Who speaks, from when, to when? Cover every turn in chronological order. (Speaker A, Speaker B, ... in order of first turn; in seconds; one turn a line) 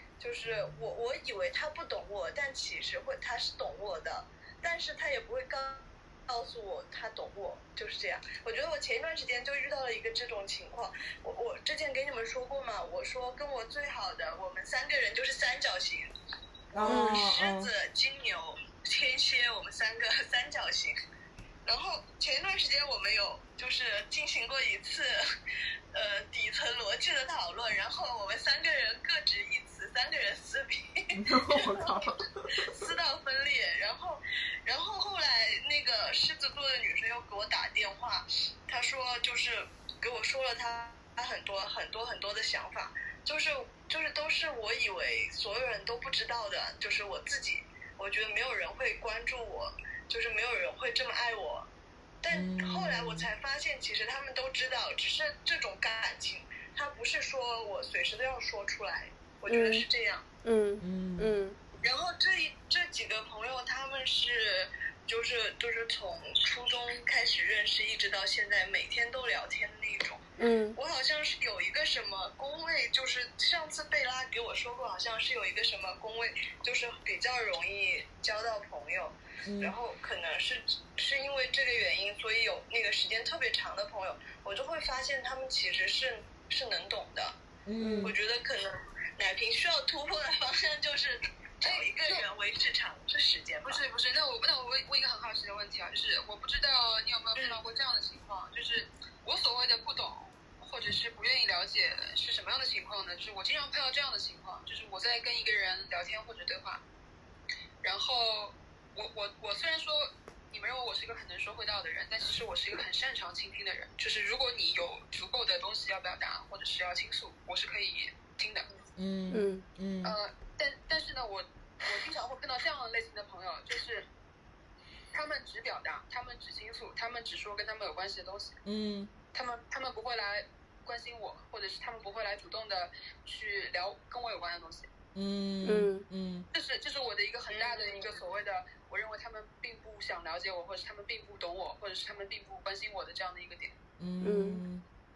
Speaker A: 0.2-16.1
Speaker B: 16.7-17.7
Speaker A: 16.8-21.0
Speaker C: 16.9-17.2
Speaker A: 21.6-25.1
Speaker A: 25.9-51.7
Speaker B: 31.1-32.5
Speaker A: 52.2-60.3
Speaker B: 52.3-53.3
Speaker C: 59.5-59.9
Speaker C: 60.4-61.6
Speaker B: 60.8-61.4
Speaker A: 61.8-87.4
Speaker C: 70.4-70.8
Speaker B: 79.5-79.7
Speaker B: 87.7-88.2
Speaker A: 87.9-93.8
Speaker D: 91.6-92.2
Speaker D: 93.7-106.8
Speaker D: 107.8-118.7
Speaker B: 119.0-120.2
Speaker C: 119.3-119.6
Speaker D: 120.0-124.1
Speaker D: 125.1-128.6
Speaker B: 128.7-129.1
Speaker D: 129.3-134.9
Speaker B: 135.1-136.5
Speaker C: 135.7-136.1
Speaker D: 136.5-143.8
Speaker A: 137.5-137.9
Speaker B: 144.0-144.8
Speaker C: 144.2-144.6